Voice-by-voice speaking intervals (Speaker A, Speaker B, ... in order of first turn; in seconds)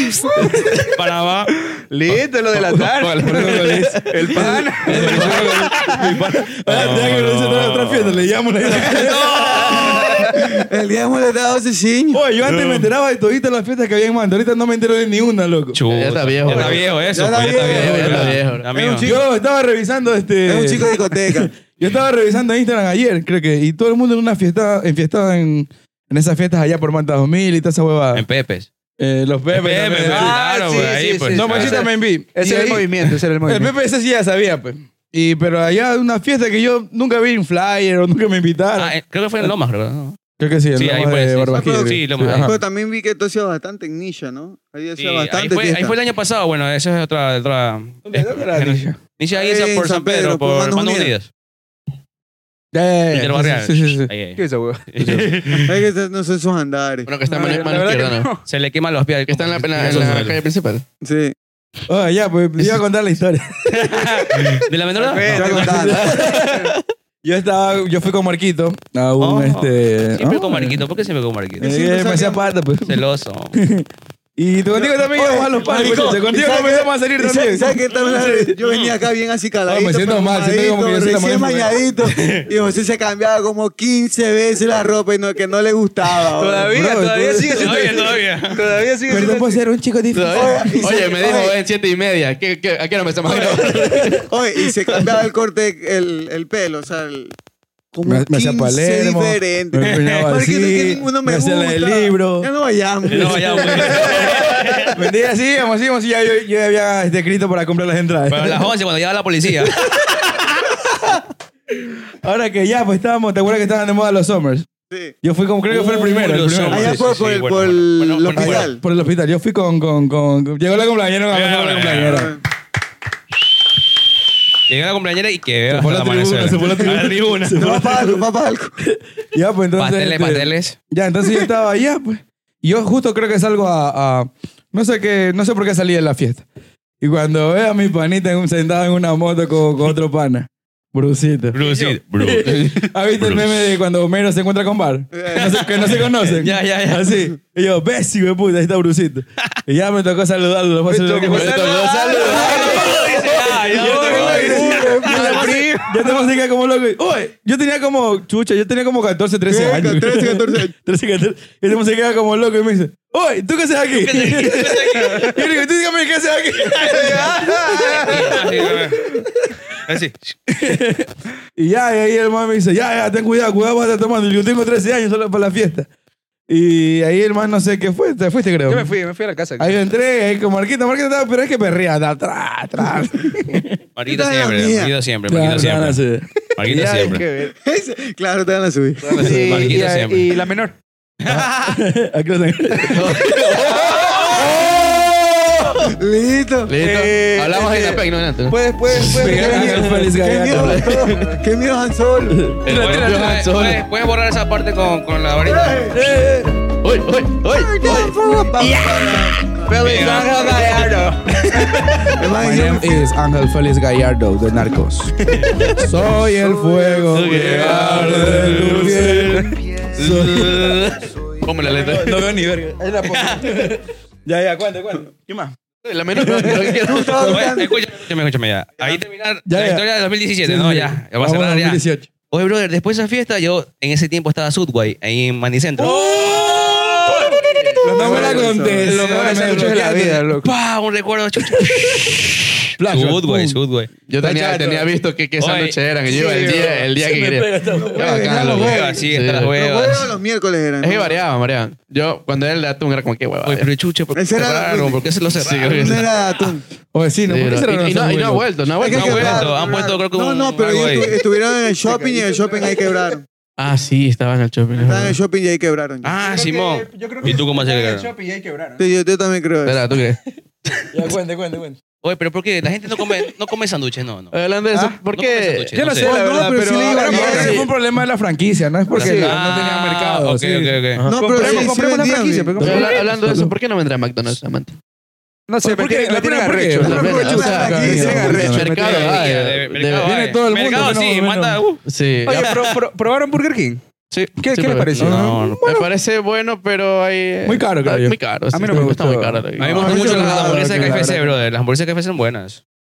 Speaker A: 0.3-0.8, 2.5-5.7, 9.6-10.0, 15.9-18.7, 57.1-58.3, 59.3-60.8, 90.1-94.3, 151.2-152.9, 155.1-155.7, 189.1-189.6, 192.8-194.2, 196.7-199.8, 200.5-201.3, 202.7-203.8, 206.8-208.1, 215.5-215.8, 217.0-222.3, 225.8-227.4, 237.4-237.8, 244.1-249.5, 250.8-253.7, 255.3-256.1, 257.3-259.4, 263.6-265.2, 269.7-270.8, 274.3-275.7, 277.2-277.6, 282.6-284.8, 286.8-290.2, 291.9-292.6, 294.1-300.0
Speaker B: 0.9-1.5, 6.7-8.3, 12.5-12.8, 15.7-19.1, 28.1-28.7, 29.5-31.8, 38.8-40.2, 40.8-42.6, 45.0-51.3, 53.1-55.7, 58.5-60.4, 63.7-66.1, 69.2-71.8, 72.8-73.6, 78.6-78.9, 82.1-82.5, 87.5-88.6, 99.8-100.3, 103.1-105.0, 108.3-109.8, 115.7-118.7, 121.3-122.3, 124.7-127.6, 129.8-130.8, 141.5-143.6, 145.4-147.2, 152.1-155.0, 163.9-165.4, 168.1-169.1, 169.8-170.2, 184.0-186.0, 186.6-187.2, 189.2-190.3, 191.2-191.5, 202.7-205.9, 209.7-211.0, 223.1-223.5, 227.2-231.8, 232.3-236.2, 240.4-243.9, 245.4-245.8, 248.3-250.1, 253.4-256.1, 258.9-261.2, 266.0-268.1, 272.0-274.4, 275.1-276.1, 278.9-281.1, 288.8-291.8, 292.5-292.7, 295.0-295.6, 299.6-302.6
Speaker C: 1.8-6.1, 8.8-9.4, 30.1-33.7, 54.4-55.1, 57.3-58.5, 65.0-66.7, 86.4-89.6, 141.6-142.0, 150.9-156.3, 165.0-165.4, 166.8-169.2, 178.7-179.8, 186.7-187.6, 189.1-190.8, 196.8-199.9, 201.1-201.4, 209.7-212.2, 216.4-217.0, 217.9-219.5, 237.8-240.5, 261.7-263.1, 266.2-268.8, 274.7-275.0, 275.7-277.6, 278.9-279.4, 281.1-283.3, 285.5-289.3, 292.2-293.8, 294.4-295.2, 298.5-301.3
Speaker D: 3.2-10.3, 12.1-15.8, 17.8-18.4, 19.0-28.2, 29.0-30.4, 31.3-39.5, 40.4-42.6, 48.1-49.0, 52.7-54.1, 55.0-55.3, 61.9-64.5, 65.5-66.7, 67.2-70.8, 71.6-73.0, 73.6-78.3, 79.7-81.8, 86.7-87.8, 89.1-90.7, 98.1-102.5, 103.1-108.7, 109.8-110.7, 111.8-114.7, 115.2-117.0, 118.4-122.4, 125.7-128.2, 128.8-136.5, 137.0-141.6, 142.2-168.6, 170.5-175.9, 176.5-178.9, 179.6-183.8, 185.3-187.1, 191.3-195.9, 199.1-201.0, 202.3-203.4, 205.9-206.5, 212.4-215.2, 215.8-220.8, 221.8-225.6, 226.1-227.1, 229.5-229.8, 230.4-232.1, 235.8-240.2, 241.7-242.2, 242.8-243.6, 244.2-244.9, 246.1-248.3, 256.9-258.5, 259.1-259.4, 270.9-271.8, 276.8-281.6, 282.6-283.5, 285.6-289.0, 290.0-291.6, 295.0-295.9, 297.4-301.2
Speaker E: 10.0-12.2, 17.1-19.2, 20.5-21.5, 41.5-46.0, 49.3-51.1, 55.6-57.1, 61.0-61.3, 65.3-66.0, 71.7-72.5, 74.8-86.7, 90.3-91.5, 94.3-97.3, 97.9-104.2, 114.9-115.2, 116.7-118.8, 122.0-122.4, 127.5-128.8, 145.1-145.8, 154.0-155.4, 159.5-160.7, 184.1-184.9, 187.6-189.4, 196.0-196.7, 199.8-202.6, 205.4-206.0, 207.6-210.1, 212.1-213.1, 226.5-227.8, 238.0-238.8, 247.7-249.0, 249.6-251.2, 254.1-255.0, 255.7-256.6, 258.8-263.2, 264.8-266.1, 268.8-269.8, 276.0-277.6, 281.1-282.6, 287.0-288.5